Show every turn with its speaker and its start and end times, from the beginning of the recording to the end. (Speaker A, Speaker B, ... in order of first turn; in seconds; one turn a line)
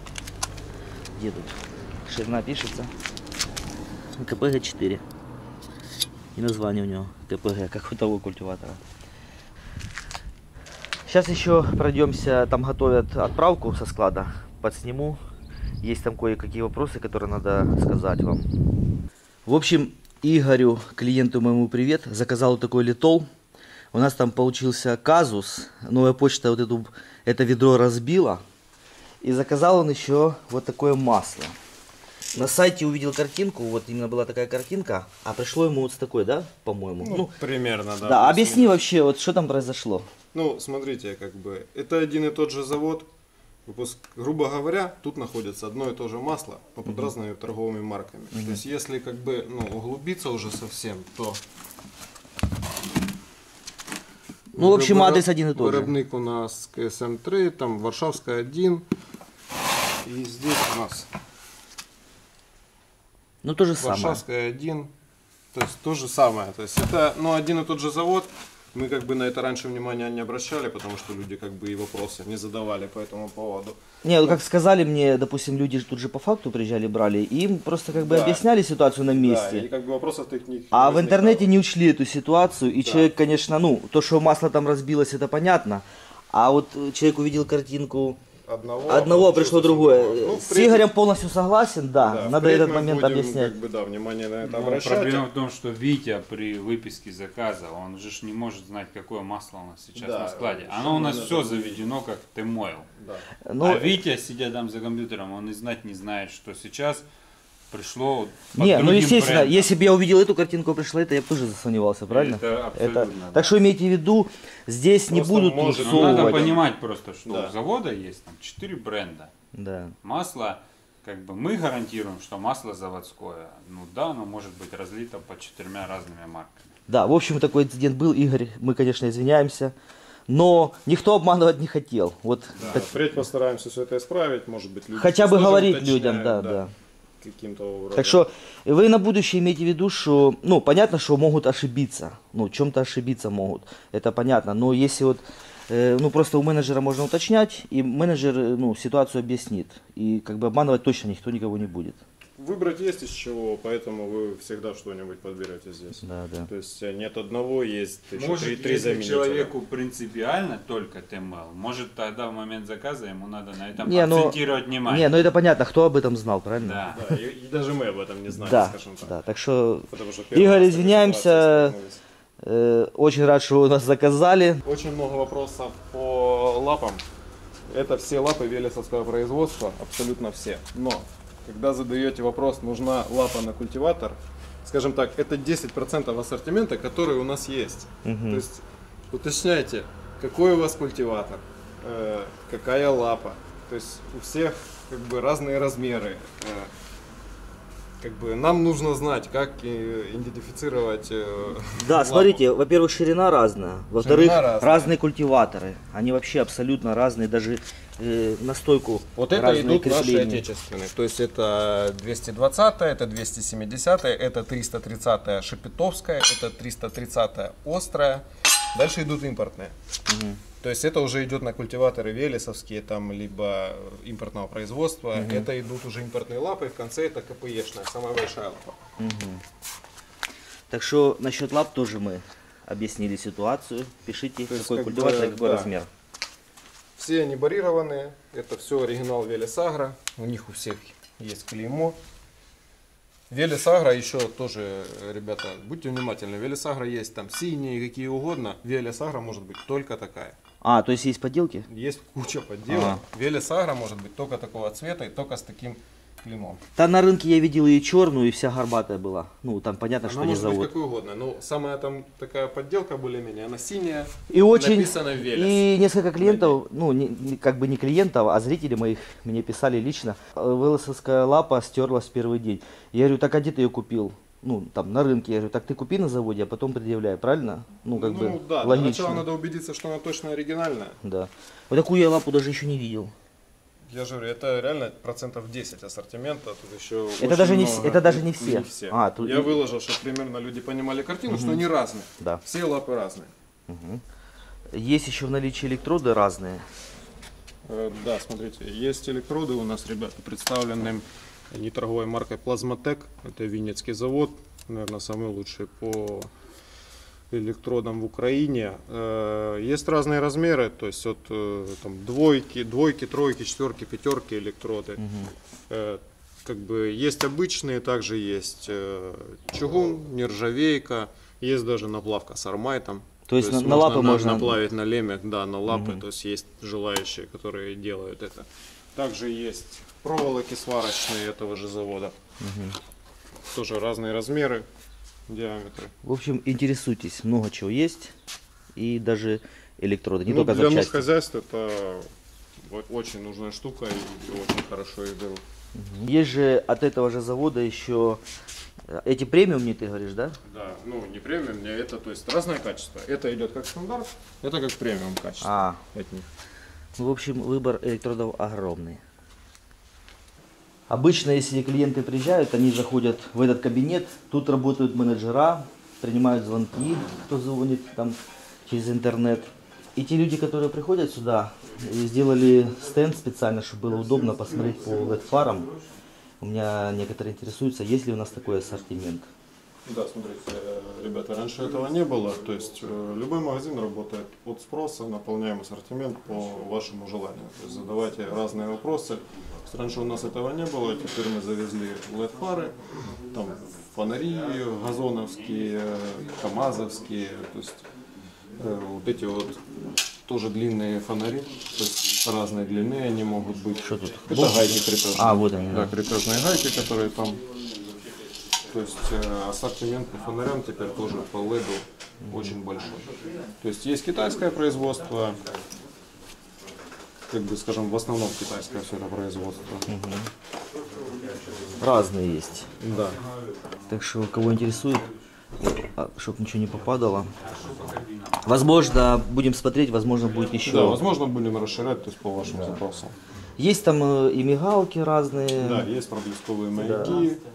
Speaker A: 1.1-2.9
Speaker A: 4.2-5.0
Speaker A: 6.3-8.8
Speaker A: 11.1-15.2
Speaker A: 15.8-18.5
Speaker A: 19.5-23.3
Speaker A: 23.9-28.4
Speaker A: 29.2-31.6
Speaker A: 32.4-37.3
Speaker B: 37.0-38.8
Speaker A: 38.0-40.1
Speaker B: 40.3-43.1
Speaker B: 43.7-51.4
Speaker A: 46.9-47.1
Speaker A: 48.3-48.6
Speaker B: 54.5-58.9
Speaker A: 54.5-56.0
Speaker B: 60.0-61.1
Speaker A: 63.4-64.2
Speaker B: 63.8-64.9
Speaker B: 65.5-74.4
Speaker A: 74.0-79.7
Speaker B: 77.9-78.5
Speaker B: 79.1-81.5
Speaker A: 80.7-88.2
Speaker B: 82.8-83.1
Speaker B: 88.5-90.9
Speaker A: 88.9-93.5
Speaker B: 92.0-95.3
Speaker C: 94.4-102.9
Speaker B: 100.0-101.8
Speaker B: 103.0-103.3
Speaker A: 103.5-103.9
Speaker C: 103.6-107.0
Speaker C: 107.7-109.7
Speaker A: 108.5-116.5
Speaker C: 112.1-113.6
Speaker B: 115.1-116.6
Speaker C: 115.7-119.3
Speaker B: 117.2-117.5
Speaker A: 119.5-120.0
Speaker C: 120.0-126.7
Speaker A: 126.9-129.7
Speaker A: 130.3-132.8
Speaker B: 132.6-136.6
Speaker A: 135.0-136.7
Speaker B: 137.2-138.2
Speaker A: 138.0-152.0
Speaker B: 152.4-159.5
Speaker A: 156.0-156.5
Speaker C: 158.1-165.3
Speaker A: 163.8-166.8
Speaker C: 166.6-167.0
Speaker B: 166.9-169.1
Speaker A: 168.3-171.8
Speaker B: 169.9-172.0
Speaker A: 172.4-174.6
Speaker B: 174.6-177.1
Speaker B: 177.7-196.7
Speaker A: 188.1-188.4
Speaker B: 198.0-202.4
Speaker A: 201.8-210.4
Speaker B: 204.0-204.9
Speaker B: 209.2-219.8
Speaker A: 220.1-220.4
Speaker B: 220.6-228.8
Speaker A: 225.2-225.5
Speaker A: 229.0-229.4
Speaker A: 230.7-235.9
Speaker B: 234.5-235.7
Speaker B: 237.0-242.0
Speaker B: 243.3-250.4
Speaker A: 250.6-251.7
Speaker B: 251.7-256.6
Speaker A: 252.7-253.0
Speaker A: 256.8-260.7
Speaker B: 260.0-266.6
Speaker A: 264.3-279.3
Speaker B: 277.9-281.0
Speaker A: 281.0-283.1
Speaker B: 283.9-293.3
Speaker A: 287.2-289.6
Speaker A: 291.3-291.6
Speaker A: 293.7-294.0
Speaker A: 294.7-296.6
Speaker B: 297.6-306.3
Speaker B: 307.3-315.0
Speaker A: 315.0-315.3
Speaker B: 315.7-332.1
Speaker A: 323.3-324.6
Speaker A: 325.7-326.0
Speaker A: 332.4-332.8
Speaker B: 333.5-334.7
Speaker B: 335.3-335.9
Speaker A: 336.0-338.1
Speaker A: 338.8-341.1
Speaker B: 340.3-342.1
Speaker B: 342.6-345.4
Speaker A: 345.8-348.2
Speaker A: 348.9-350.4
Speaker B: 350.5-356.3
Speaker A: 355.4-355.8
Speaker A: 357.0-359.0
Speaker A: 360.9-375.7
Speaker A: 376.4-379.3
Speaker B: 379.9-392.8
Speaker B: 393.3-397.9
Speaker B: 398.6-399.6
Speaker B: 400.3-407.4
Speaker A: 403.8-405.9
Speaker B: 408.7-413.1
Speaker A: 412.3-412.6
Speaker B: 413.6-415.4
Speaker B: 417.3-419.9
Speaker A: 419.9-420.3
Speaker A: 421.8-422.7
Speaker B: 422.8-423.2
Speaker A: 423.9-425.1
Speaker A: 425.6-427.3
Speaker C: 427.4-428.4
Speaker A: 428.4-431.0
Speaker B: 430.7-433.1
Speaker A: 433.6-435.9
Speaker B: 435.6-437.4
Speaker A: 436.8-437.1